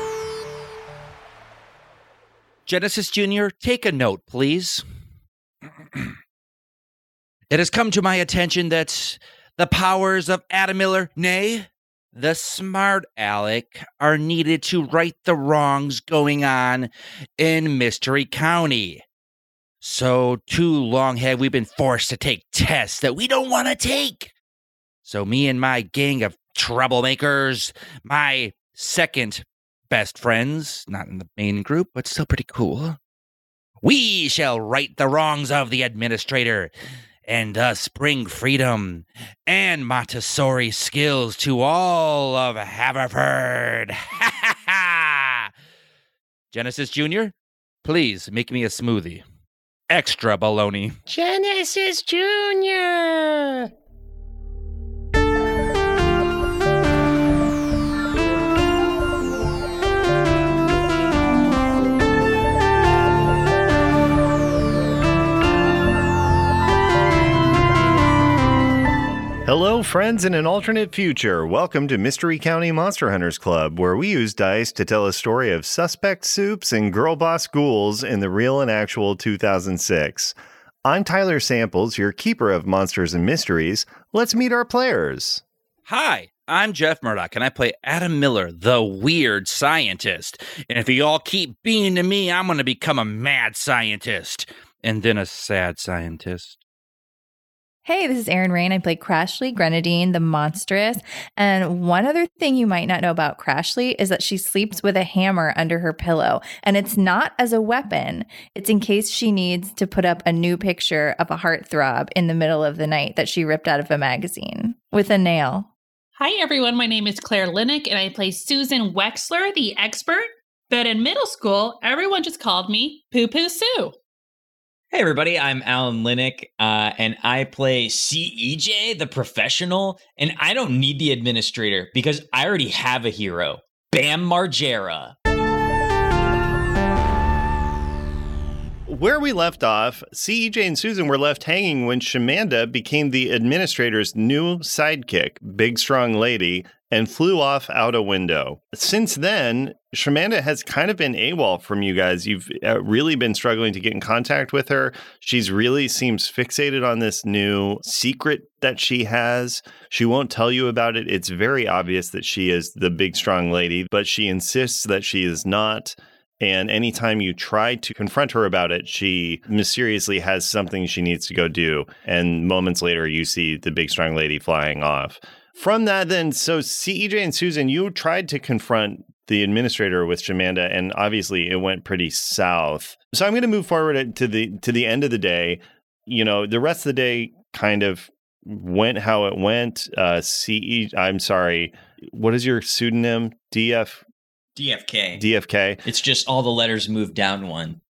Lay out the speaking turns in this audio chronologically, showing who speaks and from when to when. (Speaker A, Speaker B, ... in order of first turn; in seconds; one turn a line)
Speaker A: 2.7-4.8
Speaker A: 7.5-19.0
Speaker A: 19.8-24.3
Speaker A: 25.1-33.0
Speaker A: 33.8-36.7
Speaker A: 37.2-45.5
Speaker A: 46.5-49.2
Speaker A: 49.9-51.0
Speaker B: 51.1-53.7
Speaker B: 69.4-85.4
Speaker A: 85.9-96.6
Speaker C: 97.8-115.7
Speaker D: 116.2-123.9
Speaker E: 124.9-135.2
Speaker B: 138.9-194.0
Speaker E: 194.6-195.2
Speaker B: 195.2-195.8
Speaker E: 195.8-197.8